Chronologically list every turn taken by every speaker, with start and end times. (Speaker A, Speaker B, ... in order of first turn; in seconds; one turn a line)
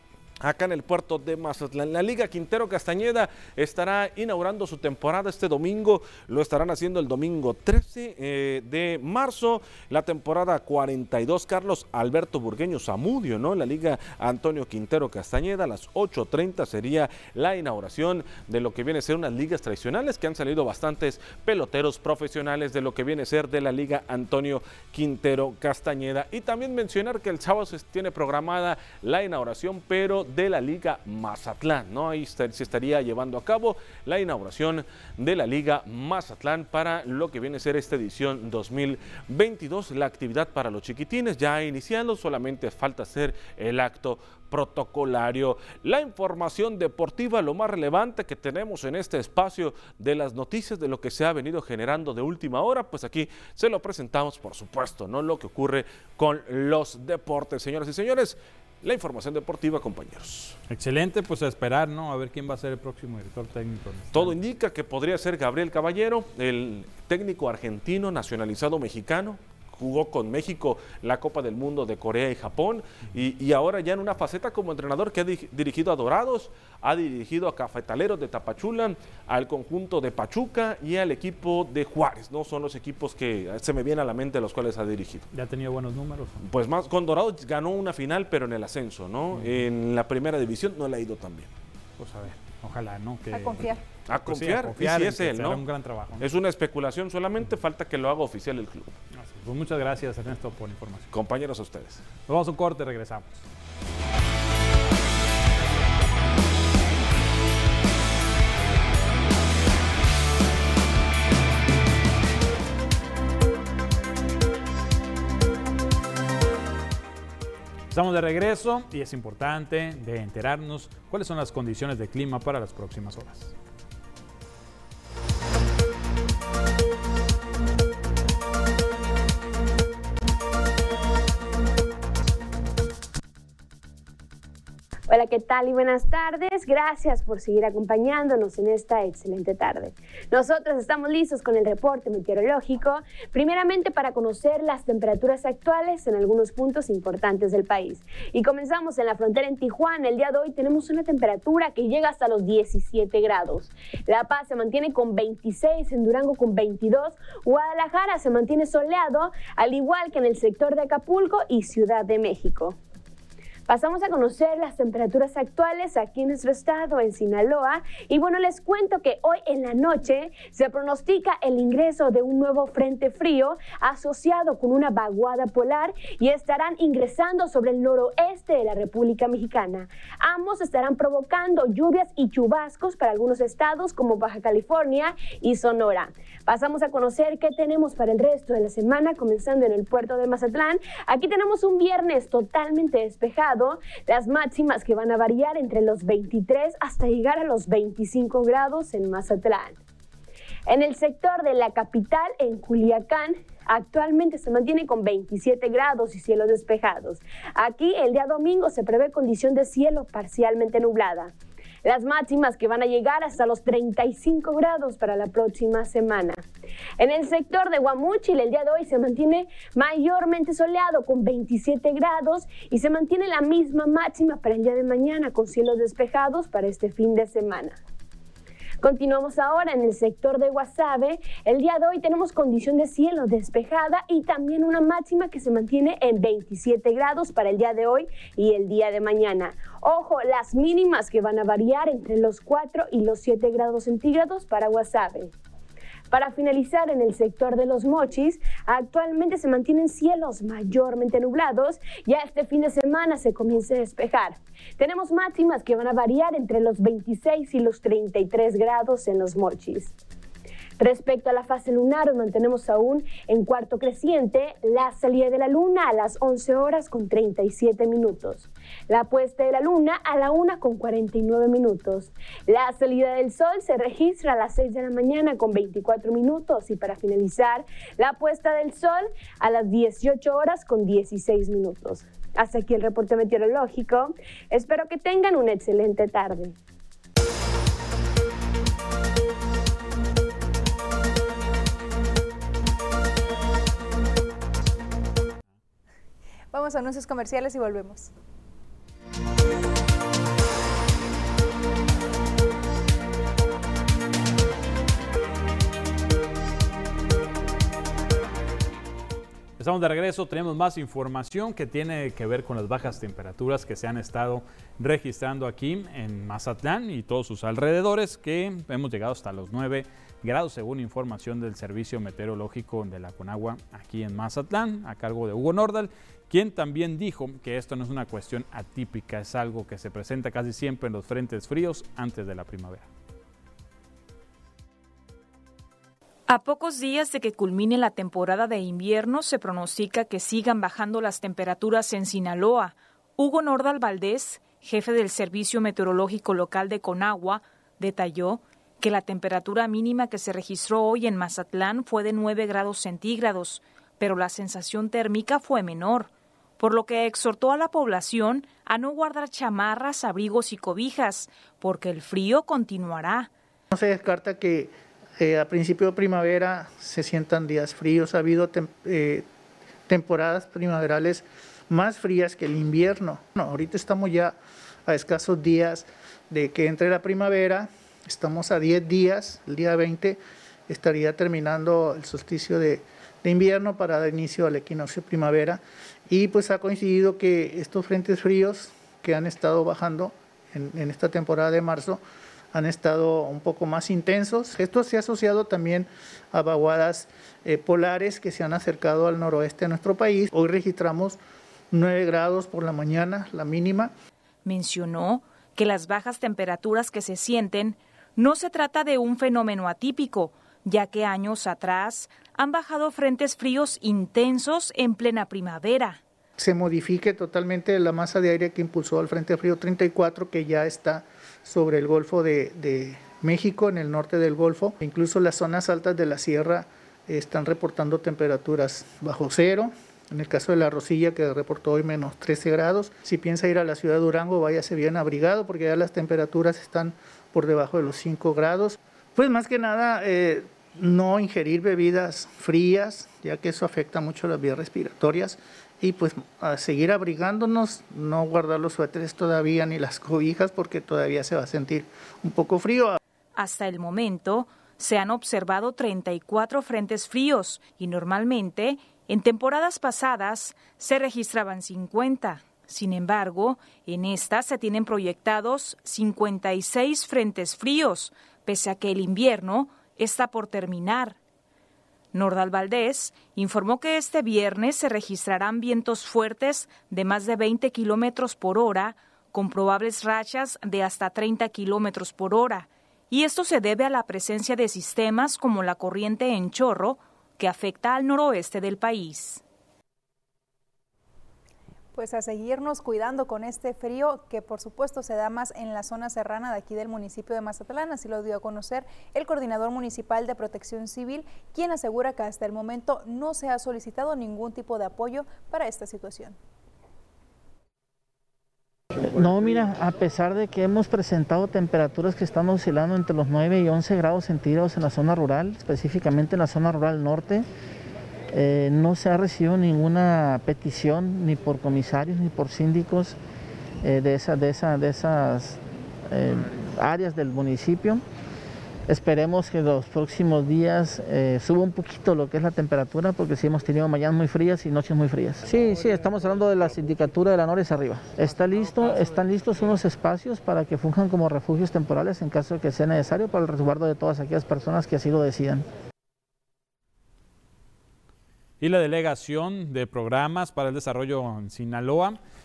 Speaker A: 0.4-60.6
Speaker B: 60.7-64.3
Speaker A: 64.1-85.3
Speaker B: 85.3-86.4
Speaker A: 86.4-91.5
Speaker B: 89.3-89.6
Speaker B: 92.0-93.6
Speaker C: 93.3-93.8
Speaker A: 94.1-95.6
Speaker B: 94.2-96.3
Speaker A: 96.2-99.0
Speaker B: 99.1-101.1
Speaker A: 101.1-102.1
Speaker B: 102.3-103.4
Speaker B: 117.9-123.5
Speaker D: 135.1-162.8
Speaker D: 163.7-199.8
Speaker D: 200.7-211.3
Speaker D: 211.8-216.4
Speaker D: 217.0-227.8
Speaker D: 228.8-245.3
Speaker D: 246.1-259.9
Speaker D: 260.8-286.6
Speaker C: 296.5-298.1
Speaker B: 309.6-332.9
Speaker E: 336.3-363.3
Speaker F: 363.7-369.2
Speaker F: 369.9-374.4
Speaker F: 374.9-392.0
Speaker F: 392.5-401.2
Speaker F: 401.7-403.9
Speaker E: 404.4-416.0
Speaker F: 416.4-453.0
Speaker E: 453.4-471.2
Speaker E: 472.1-489.4
Speaker C: 491.9-506.4
Speaker G: 509.1-517.5
Speaker G: 518.3-523.2
Speaker G: 523.8-528.0
Speaker G: 528.9-545.6
Speaker B: 548.6-552.2